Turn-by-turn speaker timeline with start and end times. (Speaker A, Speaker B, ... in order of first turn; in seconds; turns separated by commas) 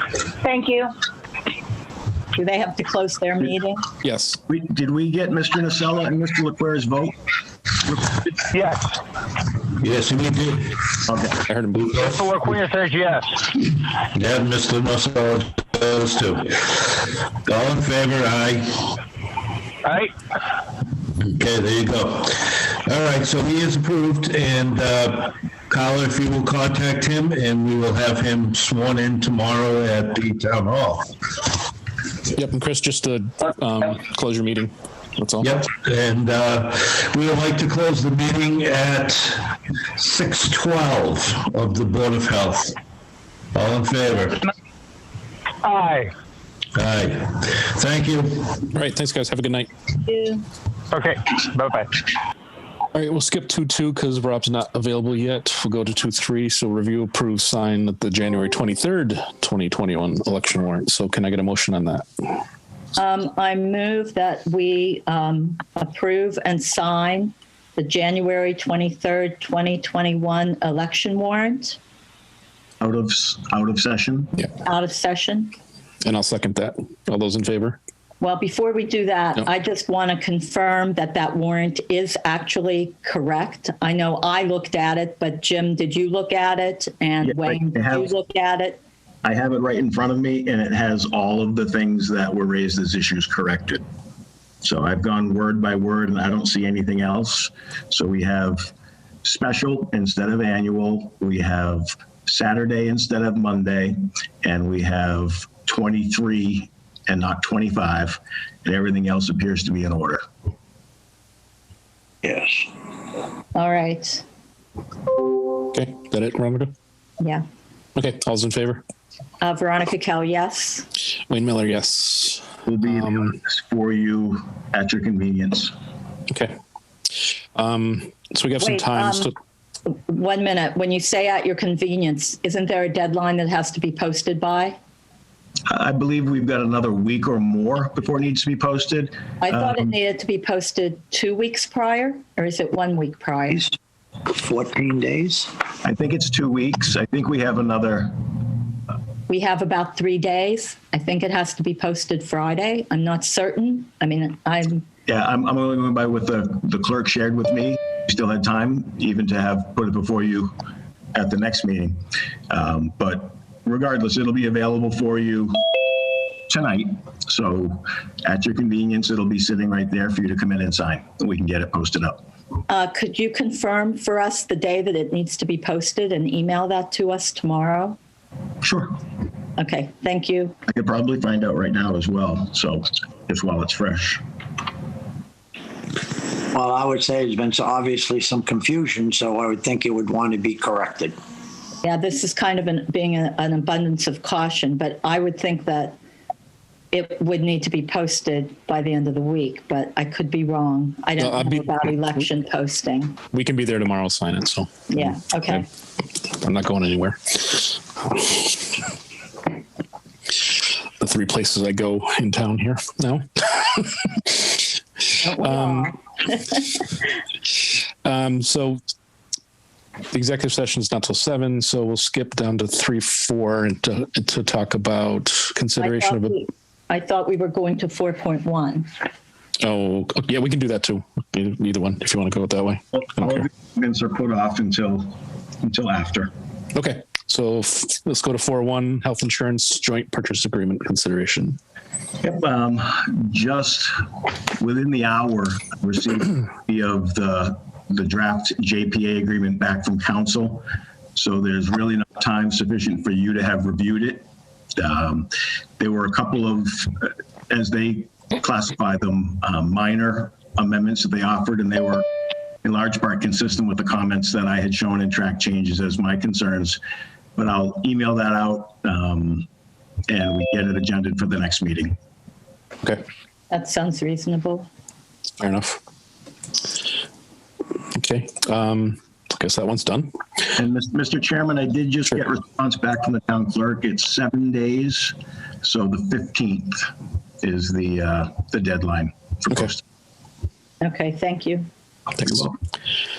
Speaker A: 2.3-3.9, Speaker B: 4.0-4.4, Speaker C: 4.5-7.1, Speaker D: 8.5-9.0, Speaker E: 9.8-11.0, Speaker C: 11.1-11.4, Speaker B: 11.5-11.8, Speaker E: 11.8-12.4, Speaker D: 11.8-13.6, Speaker E: 14.1-19.0, Speaker D: 19.8-20.1, Speaker E: 21.2-31.1, Speaker B: 32.3-35.6, Speaker E: 35.4-42.8, Speaker E: 43.5-44.5, Speaker D: 45.6-46.1, Speaker E: 46.7-48.6, Speaker B: 48.7-49.7, Speaker A: 50.0-50.4, Speaker D: 50.9-52.0, Speaker B: 52.9-62.3, Speaker A: 63.0-71.8, Speaker C: 72.8-74.3, Speaker A: 74.6-75.5, Speaker B: 76.0-77.8, Speaker A: 78.2-88.8, Speaker C: 87.2-88.1, Speaker C: 89.2-93.8, Speaker C: 94.6-98.7, Speaker C: 99.2-110.2, Speaker F: 112.2-112.7, Speaker A: 113.5-114.2, Speaker B: 115.7-116.7, Speaker B: 118.0-118.8, Speaker A: 119.4-120.9, Speaker B: 121.3-123.3, Speaker C: 122.7-125.7, Speaker B: 126.3-126.5, Speaker B: 127.2-129.3, Speaker A: 128.6-129.3, Speaker A: 129.8-134.8, Speaker C: 135.7-139.8, Speaker A: 139.4-143.7, Speaker F: 144.3-145.5, Speaker C: 145.8-148.2, Speaker A: 149.3-154.8, Speaker C: 155.1-160.6, Speaker C: 161.1-165.6, Speaker C: 166.5-172.2, Speaker A: 172.7-178.0, Speaker C: 178.6-179.0, Speaker A: 179.6-180.5, Speaker C: 180.7-184.2, Speaker F: 186.5-191.1, Speaker A: 191.8-196.0, Speaker A: 196.9-203.2, Speaker B: 201.2-201.9, Speaker B: 203.3-205.6, Speaker A: 204.9-205.7, Speaker B: 206.4-208.8, Speaker B: 211.0-214.7, Speaker A: 215.2-215.9, Speaker B: 215.4-215.9, Speaker B: 218.0-218.8, Speaker B: 220.1-226.3, Speaker A: 225.8-228.9, Speaker B: 229.6-233.4, Speaker C: 233.0-236.3, Speaker B: 236.7-241.6, Speaker C: 242.2-243.9, Speaker C: 244.6-254.2, Speaker C: 254.8-262.1, Speaker C: 262.6-266.8, Speaker C: 267.4-269.5, Speaker C: 270.1-271.9, Speaker A: 273.5-274.7, Speaker B: 275.4-275.8, Speaker B: 277.9-280.1, Speaker C: 280.5-286.9, Speaker C: 287.4-289.8, Speaker A: 290.8-291.7, Speaker B: 292.2-292.5, Speaker C: 292.2-292.5